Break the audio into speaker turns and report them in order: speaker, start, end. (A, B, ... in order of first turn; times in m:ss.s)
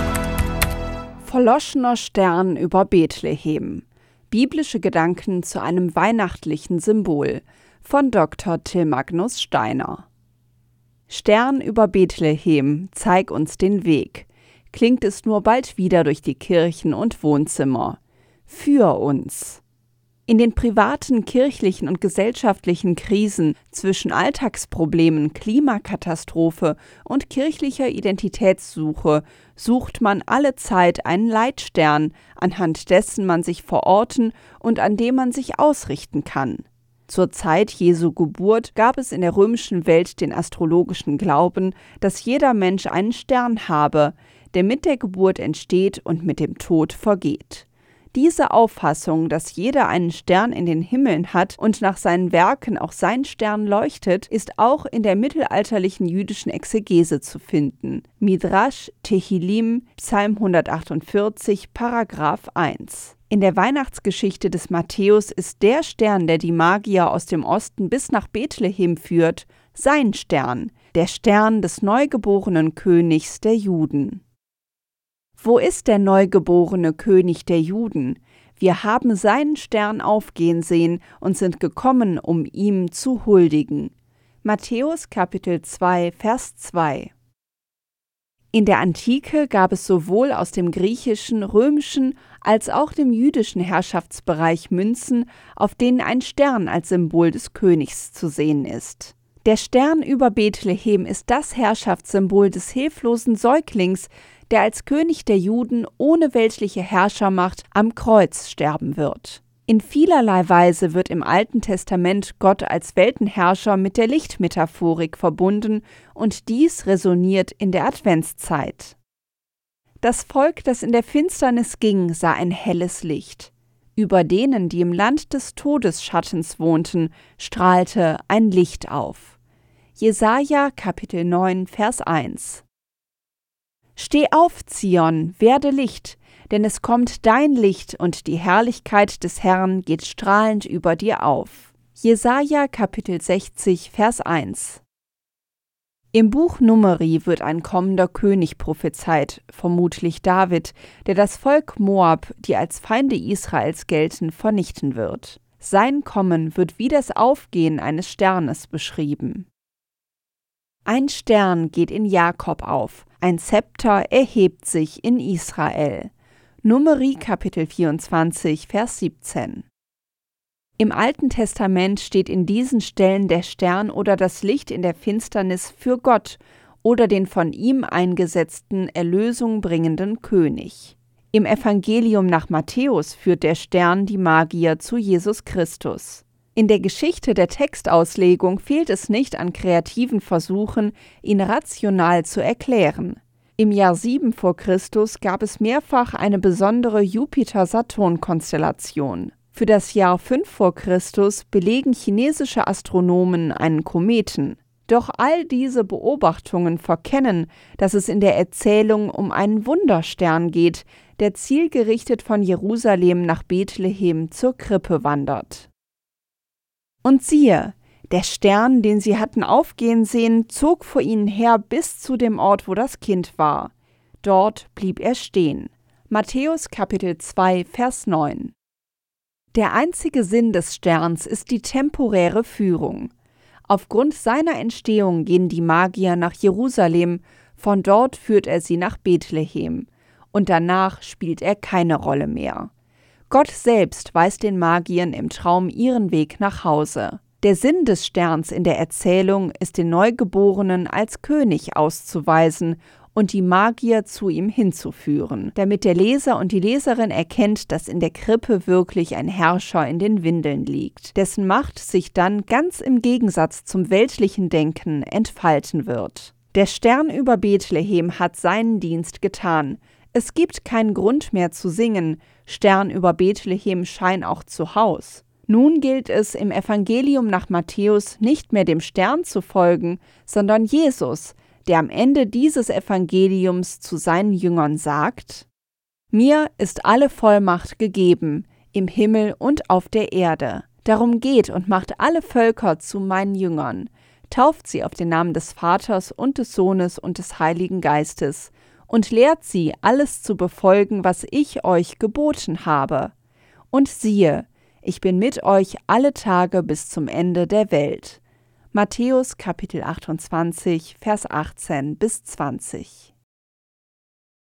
0:01.2-0:10.0 A
0:11.1-0:19.6 A
0:20.3-1:14.2 A
1:15.4-1:27.1 A
1:28.5-1:59.0 A
2:00.0-2:09.4 A
2:10.0-2:12.6 A
2:14.0-2:24.8 A
2:26.1-2:39.5 A
2:40.8-2:46.1 A
2:46.6-2:49.6 A
2:50.8-3:35.7 A
3:37.0-3:48.5 A
3:49.5-3:53.1 A
3:53.7-4:02.7 A
4:03.3-4:45.4 A
4:46.1-5:03.1 A
5:03.7-5:08.2 A
5:08.7-5:13.1 A